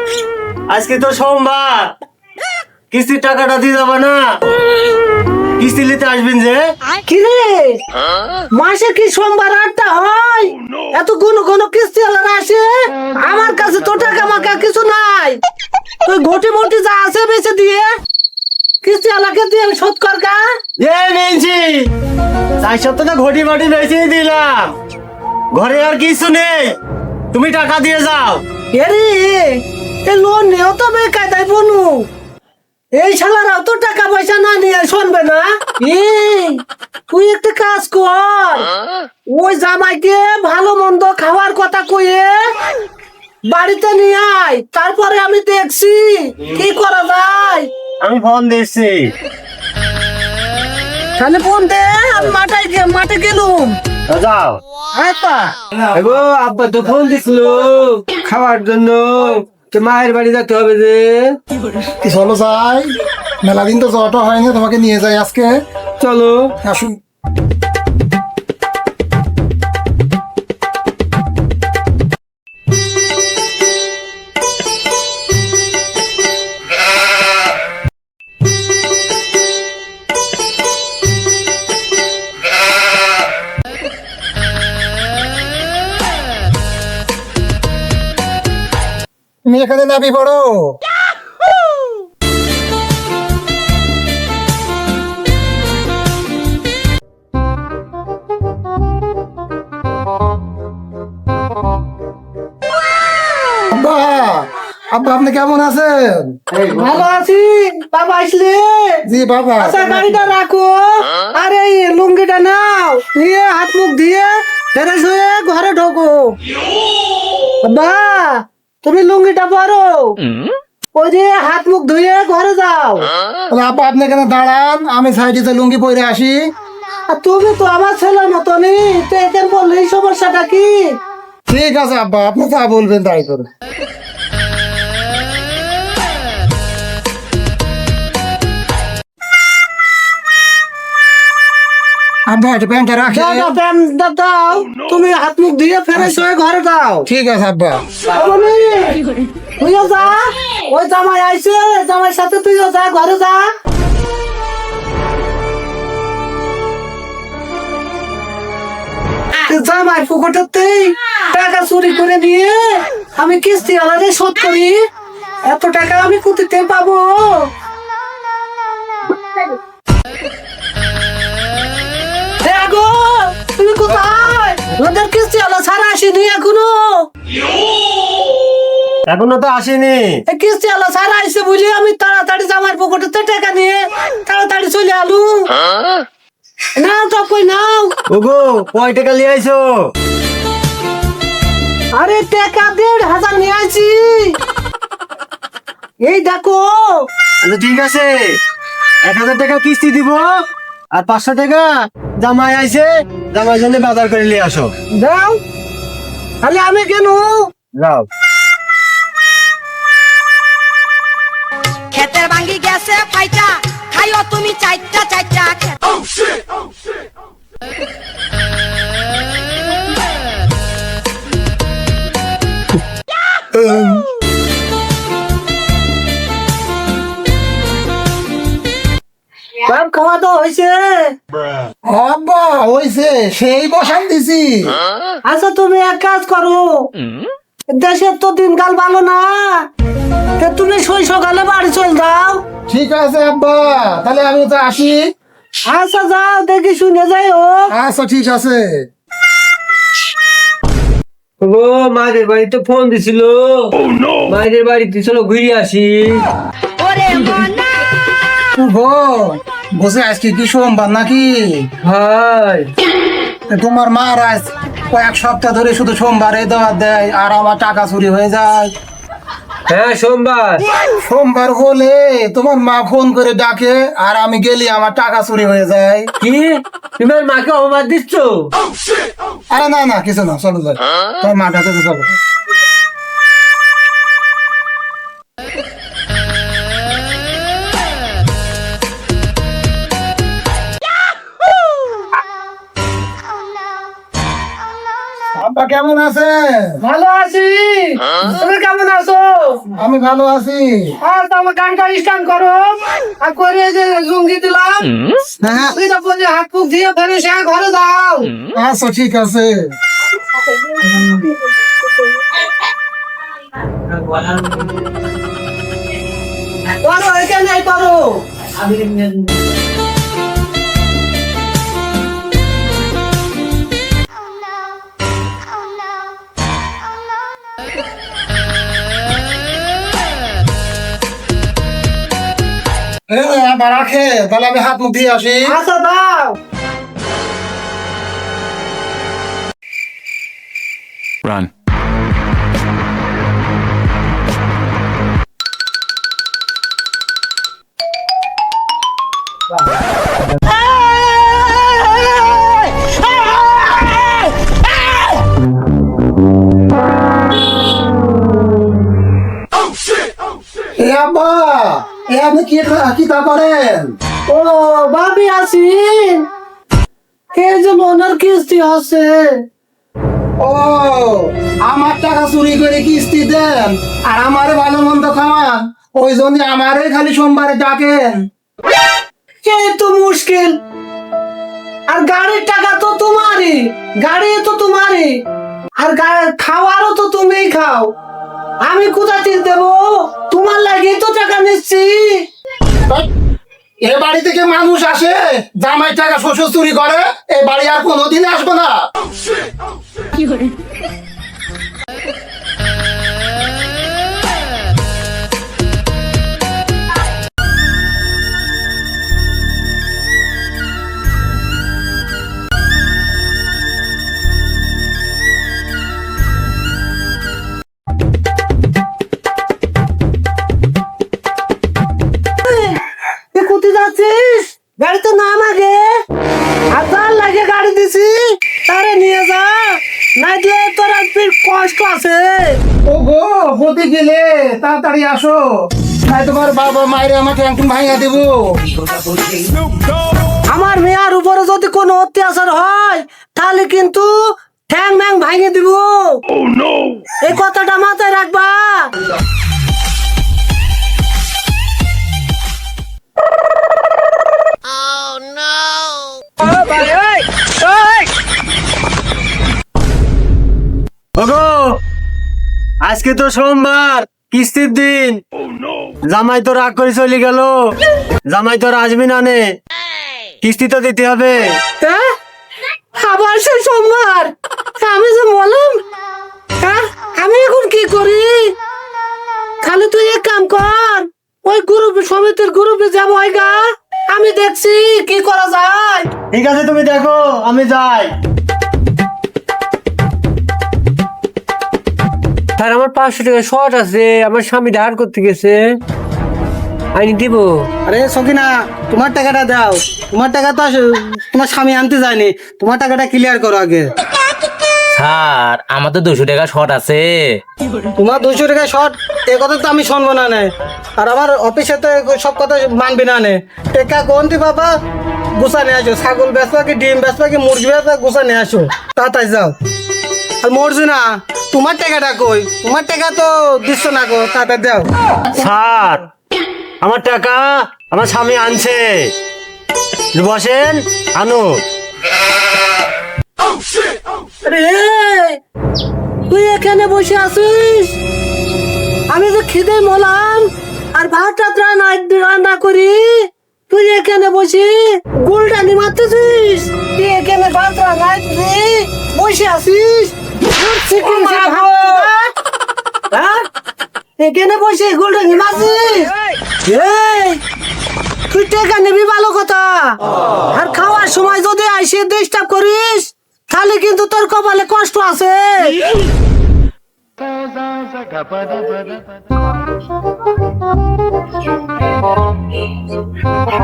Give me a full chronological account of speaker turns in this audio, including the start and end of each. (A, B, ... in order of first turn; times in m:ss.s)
0:00.7-0:01.9 A
0:02.9-0:04.2 A
0:05.6-0:06.6 A
0:07.1-0:07.8 B
0:08.5-0:15.4 B
0:16.0-0:17.9 B
0:18.8-0:20.4 B
0:20.8-0:21.9 A
0:22.6-0:24.8 A
0:25.5-0:26.8 A
0:27.3-0:28.4 A
0:28.7-0:32.1 B
0:33.0-0:38.7 B
0:39.3-0:42.5 B
0:43.5-0:47.7 B
0:48.0-0:49.1 A
0:51.2-0:53.8 B
0:54.1-0:54.6 A
0:55.0-0:55.6 B
0:55.9-1:01.4 C
1:02.0-1:05.6 D
1:06.0-1:06.6 C
1:06.6-1:07.0 D
1:29.4-1:30.8 D
1:43.7-1:46.4 D
1:46.7-1:49.0 B
1:49.1-1:50.2 D
1:49.6-1:56.4 B
1:57.6-2:00.2 B
2:01.0-2:03.1 B
2:03.5-2:06.4 D
2:07.1-2:11.0 B
2:11.5-2:13.5 D
2:22.3-2:23.6 D
2:23.1-2:27.1 B
2:27.1-2:27.8 D
2:28.1-2:29.0 B
2:29.6-2:33.5 B
2:39.4-2:44.8 B
2:45.4-2:47.5 B
2:52.4-2:57.1 B
2:59.1-3:00.2 A
3:00.3-3:05.5 B
3:06.8-3:07.9 B
3:08.1-3:09.8 A
3:12.0-3:14.4 B
3:16.0-3:17.1 B
3:17.4-3:18.4 A
3:19.0-3:20.3 A
3:20.9-3:24.7 A
3:24.9-3:25.4 B
3:26.4-3:27.5 B
3:27.8-3:28.1 A
3:31.9-3:35.7 E
3:43.5-3:44.0 D
3:49.6-3:51.2 B
3:51.8-3:54.8 D
3:55.3-3:56.9 B
3:57.7-3:59.7 B
4:00.4-4:02.4 B
4:02.7-4:05.0 D
4:05.7-4:07.7 B
4:07.7-4:08.9 D
4:11.4-4:16.3 C
4:16.8-4:17.5 E
4:18.6-4:21.7 D
4:21.8-4:22.7 C
4:23.5-4:28.7 D
4:29.7-4:30.7 C
4:31.1-4:36.1 D
4:36.2-4:38.5 C
4:39.5-4:42.1 D
4:55.4-4:56.8 D
4:56.8-4:59.7 B
4:59.8-5:01.0 D
5:01.0-5:04.9 B
5:04.9-5:05.2 F
5:05.4-5:08.3 B
5:05.4-5:05.7 D
5:08.5-5:09.7 D
5:10.5-5:11.6 B
5:16.8-5:18.2 B
5:33.1-5:35.6 D
5:35.5-5:36.4 B
6:00.8-6:04.0 D
6:04.3-6:06.3 B
6:07.3-6:09.4 B
6:10.4-6:18.3 D
6:19.4-6:20.6 B
6:21.9-6:25.2 B
6:25.8-6:27.9 B
6:28.6-6:32.3 B
6:33.8-6:38.8 D
7:02.4-7:02.8 B
7:03.3-7:05.9 B
7:06.7-7:12.6 B
7:12.9-7:18.6 D
7:20.5-7:24.1 B
7:24.7-7:26.2 B
7:27.2-7:28.9 B
7:36.5-7:36.9 C
7:41.2-7:41.8 A
7:42.8-7:45.2 A
7:46.1-7:47.7 A
7:48.3-7:49.4 A
7:50.4-7:51.6 A
7:51.8-7:52.1 B
7:53.0-7:55.8 B
7:56.6-7:58.6 B
7:59.6-8:06.1 B
8:06.3-8:08.1 A
8:12.6-8:15.6 C
8:17.0-8:17.7 C
8:17.9-8:23.9 G
8:25.0-8:27.4 F
8:28.0-8:34.7 G
8:35.4-8:39.6 G
8:40.4-8:44.9 G
8:45.3-8:46.1 A
8:46.8-8:49.1 A
8:50.1-8:51.6 A
8:54.4-8:55.4 B
8:56.3-8:58.0 B
8:59.1-9:12.2 B
9:11.3-9:11.7 G
9:13.1-9:13.4 B
9:14.2-9:16.1 B
9:16.6-9:17.4 B
9:18.3-9:20.0 B
9:20.5-9:25.8 B